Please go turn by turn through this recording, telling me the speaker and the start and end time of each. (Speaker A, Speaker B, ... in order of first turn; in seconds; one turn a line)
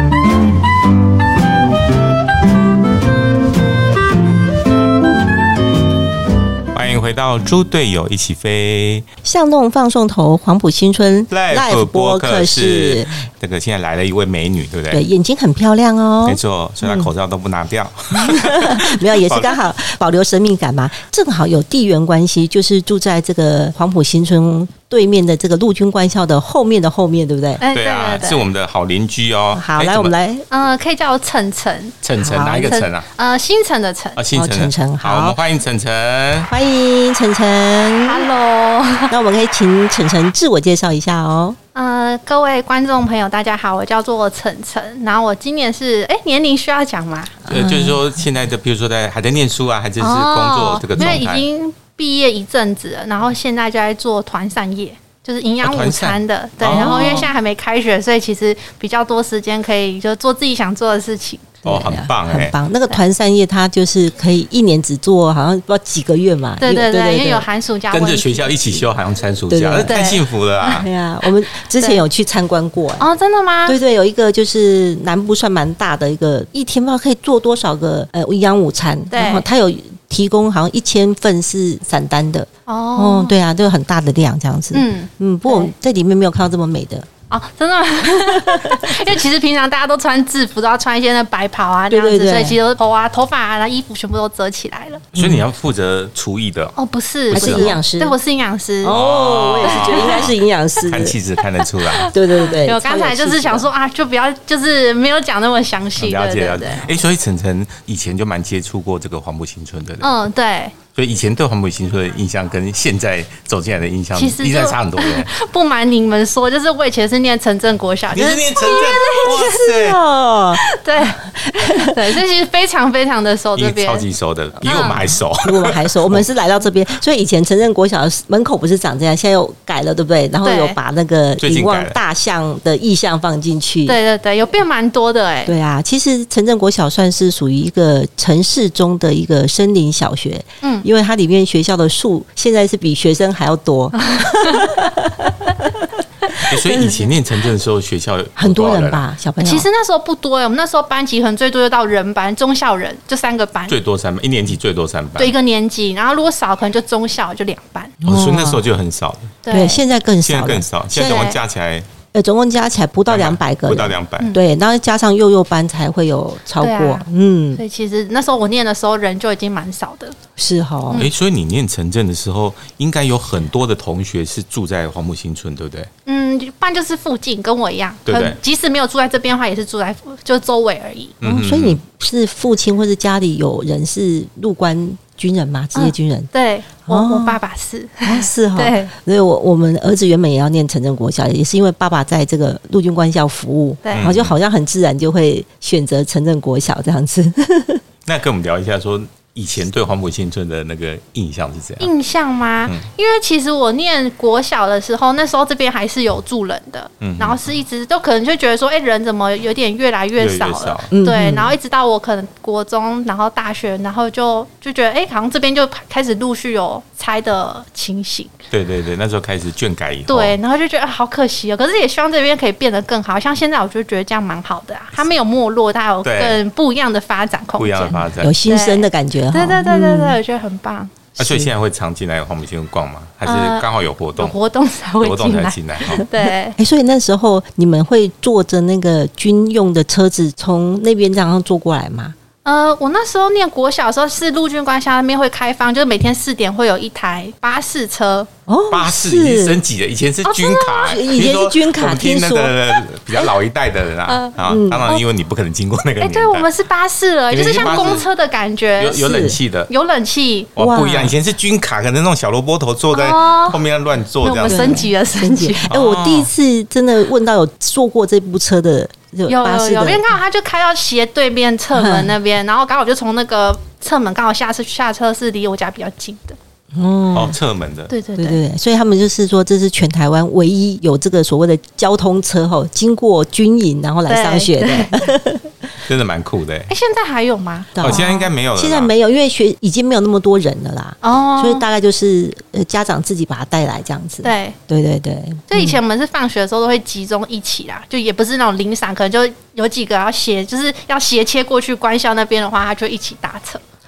Speaker A: 6.7-9.1
Speaker B: 9.2-13.2
Speaker A: 11.3-15.0
Speaker B: 14.9-17.1
Speaker A: 16.2-19.6
Speaker B: 18.2-27.6
Speaker C: 27.6-28.5
Speaker A: 27.7-30.1
Speaker B: 29.5-30.4
Speaker C: 30.5-32.0
Speaker A: 32.0-33.1
Speaker B: 32.2-32.8
Speaker C: 32.5-34.2
Speaker A: 34.2-36.5
Speaker B: 34.3-35.4
Speaker B: 36.5-38.3
Speaker C: 38.0-39.1
Speaker B: 39.1-41.6
Speaker C: 41.7-47.4
Speaker B: 47.5-48.1
Speaker A: 47.5-51.5
Speaker C: 50.0-61.5
Speaker A: 55.6-57.3
Speaker B: 56.6-57.3
Speaker B: 61.6-67.5
Speaker A: 61.6-62.6
Speaker C: 66.6-68.9
Speaker A: 67.9-70.9
Speaker B: 69.5-70.0
Speaker C: 69.8-70.2
Speaker B: 70.7-73.1
Speaker C: 71.8-72.0
Speaker C: 73.0-73.8
Speaker B: 73.7-87.1
Speaker C: 79.1-79.5
Speaker C: 82.7-83.3
Speaker C: 84.7-85.7
Speaker C: 87.3-95.0
Speaker B: 88.3-88.9
Speaker B: 91.9-92.6
Speaker A: 95.1-96.8
Speaker B: 95.2-95.4
Speaker C: 96.8-99.0
Speaker A: 97.3-97.8
Speaker B: 97.3-98.2
Speaker B: 98.8-101.2
Speaker A: 98.9-102.1
Speaker C: 99.6-100.3
Speaker C: 101.8-106.9
Speaker B: 102.1-103.7
Speaker A: 106.0-110.1
Speaker C: 110.0-110.8
Speaker A: 111.0-115.3
Speaker C: 114.1-119.4
Speaker A: 118.1-120.0
Speaker B: 119.2-120.6
Speaker C: 120.5-124.1
Speaker B: 121.4-122.0
Speaker A: 123.6-126.3
Speaker C: 124.6-125.0
Speaker B: 124.7-134.0
Speaker C: 130.4-130.8
Speaker A: 131.4-132.0
Speaker C: 133.9-135.5
Speaker B: 135.5-145.7
Speaker C: 140.6-140.9
Speaker C: 144.2-144.7
Speaker A: 146.4-149.1
Speaker B: 146.6-146.9
Speaker B: 148.4-149.7
Speaker C: 149.4-153.8
Speaker A: 153.7-155.3
Speaker C: 155.2-157.9
Speaker A: 158.0-159.4
Speaker B: 158.1-158.7
Speaker C: 159.4-159.8
Speaker B: 159.5-161.3
Speaker A: 160.2-161.9
Speaker C: 160.9-161.4
Speaker B: 162.1-167.6
Speaker A: 163.1-164.3
Speaker C: 166.6-170.2
Speaker B: 170.4-171.1
Speaker A: 170.9-175.9
Speaker C: 176.1-181.2
Speaker A: 178.1-178.4
Speaker A: 181.2-181.8
Speaker B: 181.2-186.3
Speaker C: 185.7-188.9
Speaker B: 186.9-187.4
Speaker B: 188.0-197.8
Speaker C: 193.8-194.2
Speaker A: 193.9-194.4
Speaker A: 198.1-201.9
Speaker C: 201.8-218.3
Speaker A: 207.0-207.4
Speaker A: 210.2-210.9
Speaker B: 210.9-211.6
Speaker A: 218.5-220.4
Speaker C: 220.1-230.9
Speaker A: 226.0-226.4
Speaker A: 227.6-228.4
Speaker B: 228.2-230.2
Speaker A: 231.2-234.4
Speaker B: 231.2-231.5
Speaker C: 233.2-236.6
Speaker A: 235.0-236.1
Speaker B: 236.6-242.2
Speaker C: 242.4-248.3
Speaker B: 248.5-249.6
Speaker A: 248.7-256.5
Speaker C: 250.2-251.0
Speaker B: 250.8-252.6
Speaker C: 254.1-254.4
Speaker B: 254.4-255.0
Speaker C: 256.0-260.5
Speaker A: 257.3-258.1
Speaker A: 258.8-259.7
Speaker B: 259.0-259.4
Speaker A: 260.6-264.8
Speaker B: 260.6-261.1
Speaker C: 262.9-263.6
Speaker C: 264.2-265.7
Speaker B: 264.4-270.1
Speaker A: 265.7-266.3
Speaker C: 269.3-276.4
Speaker B: 271.7-272.1
Speaker B: 276.7-277.4
Speaker A: 277.1-277.9
Speaker C: 277.9-278.4
Speaker B: 278.2-285.5
Speaker C: 284.1-285.0
Speaker A: 285.9-286.7
Speaker C: 286.7-288.2
Speaker B: 287.8-295.8
Speaker A: 287.8-288.9
Speaker C: 291.0-291.6
Speaker C: 294.2-294.6
Speaker C: 295.5-303.6